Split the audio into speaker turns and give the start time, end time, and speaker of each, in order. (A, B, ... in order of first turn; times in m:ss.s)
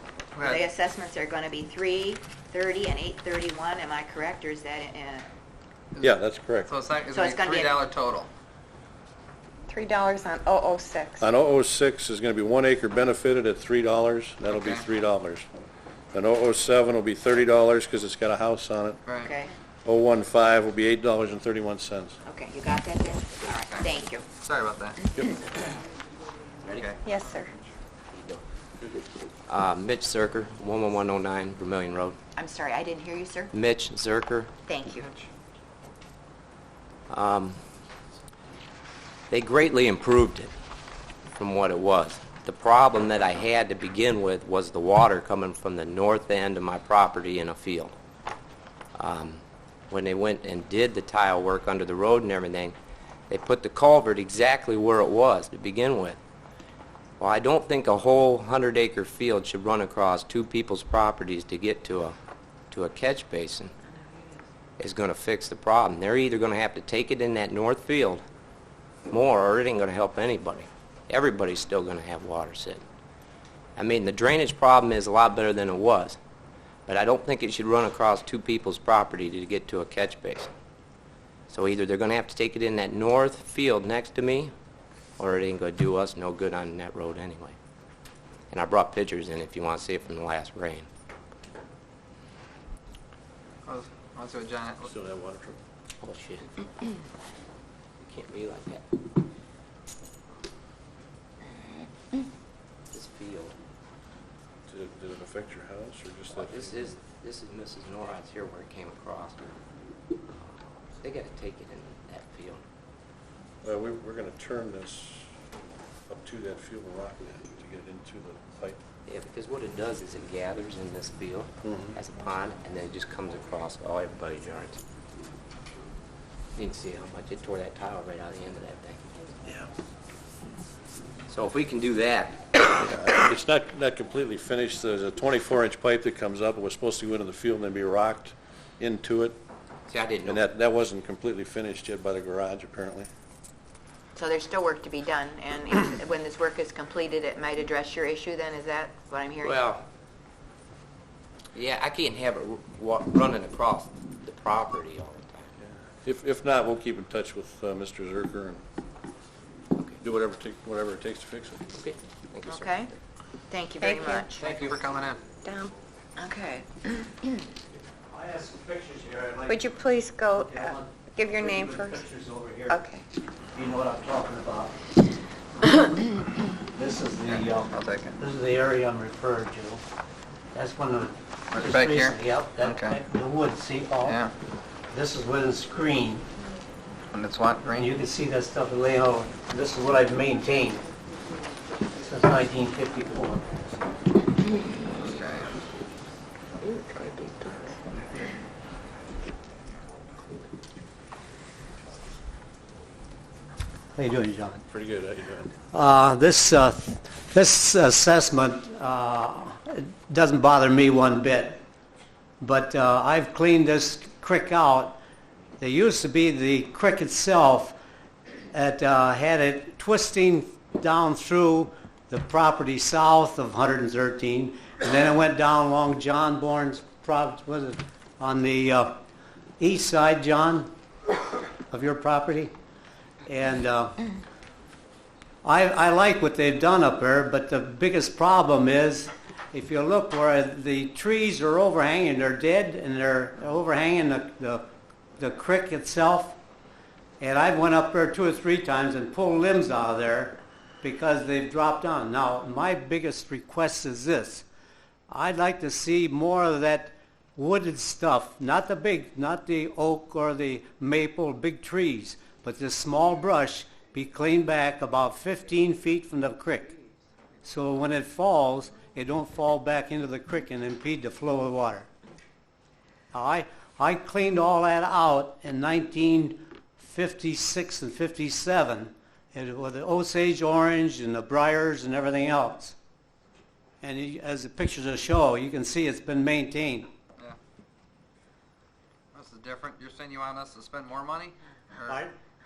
0:00.4-0:00.7 A
0:00.4-0:05.3 B
0:06.0-0:06.7 C
0:06.7-0:08.3 A
0:07.1-0:07.8 B
0:09.7-0:11.2 D
0:11.2-0:15.5 C
0:14.6-0:14.8 A
0:16.1-0:19.0 C
0:19.1-0:19.3 A
0:19.2-0:19.5 B
0:19.8-0:22.2 C
0:22.2-0:24.3 B
0:23.6-0:25.1 A
0:26.6-0:26.9 E
0:26.7-0:27.0 A
0:27.0-0:27.5 D
0:28.1-0:28.4 E
0:29.5-0:32.2 E
0:32.4-0:33.5 B
0:33.5-0:34.5 E
0:34.7-0:35.1 B
0:35.0-0:35.3 A
0:37.1-0:37.6 E
0:39.3-0:40.5 E
0:41.4-0:47.9 E
0:49.0-0:52.8 E
0:53.3-0:56.2 E
0:57.2-1:02.2 E
1:02.7-1:03.7 E
1:04.8-1:08.2 E
1:09.1-1:12.8 E
1:13.8-1:16.2 E
1:16.9-1:20.5 E
1:21.5-1:24.5 E
1:25.2-1:27.6 E
1:28.5-1:30.9 E
1:33.7-1:34.9 A
1:34.8-1:35.6 C
1:36.0-1:36.9 E
1:38.0-1:38.8 E
1:42.9-1:43.6 E
1:44.7-1:46.9 C
1:46.3-1:49.5 E
1:51.0-1:52.6 E
1:53.6-1:55.3 C
1:56.1-1:58.8 C
1:59.1-2:04.8 E
2:01.6-2:02.0 C
2:06.6-2:09.1 E
2:11.3-2:12.6 E
2:12.7-2:19.4 C
2:19.9-2:20.5 E
2:20.2-2:23.1 C
2:24.2-2:29.6 B
2:29.4-2:29.8 E
2:31.5-2:35.5 E
2:36.0-2:38.6 C
2:40.0-2:41.8 C
2:41.7-2:43.0 E
2:42.5-2:42.9 B
2:43.5-2:44.5 B
2:43.8-2:44.3 D
2:44.4-2:44.8 E
2:44.5-2:45.3 A
2:45.4-2:45.7 D
2:46.2-2:47.1 B
2:48.1-2:49.8 F
2:49.5-2:52.0 D
2:50.4-2:52.8 F
2:52.7-2:53.0 D
2:53.5-2:54.8 F
2:56.7-2:59.8 F
2:57.3-2:58.2 A
3:00.5-3:04.2 F
3:01.5-3:03.0 A
3:04.0-3:04.3 A
3:04.9-3:06.3 F
3:07.1-3:08.0 A
3:07.7-3:10.8 F
3:12.0-3:13.5 F
3:15.0-3:15.5 A
3:23.9-3:24.6 F
3:24.7-3:25.5 C
3:25.7-3:31.6 F
3:32.4-3:35.0 F
3:35.6-3:37.8 F
3:38.5-3:49.0 F
3:49.6-3:50.7 F
3:51.7-3:52.5 F
3:53.3-3:54.0 F
3:55.4-4:06.4 F
4:07.2-4:14.5 F
4:15.1-4:26.8 F
4:27.4-4:31.9 F
4:33.1-4:42.8 F
4:43.8-4:46.9 F
4:49.1-4:52.0 A
4:51.8-4:52.1 F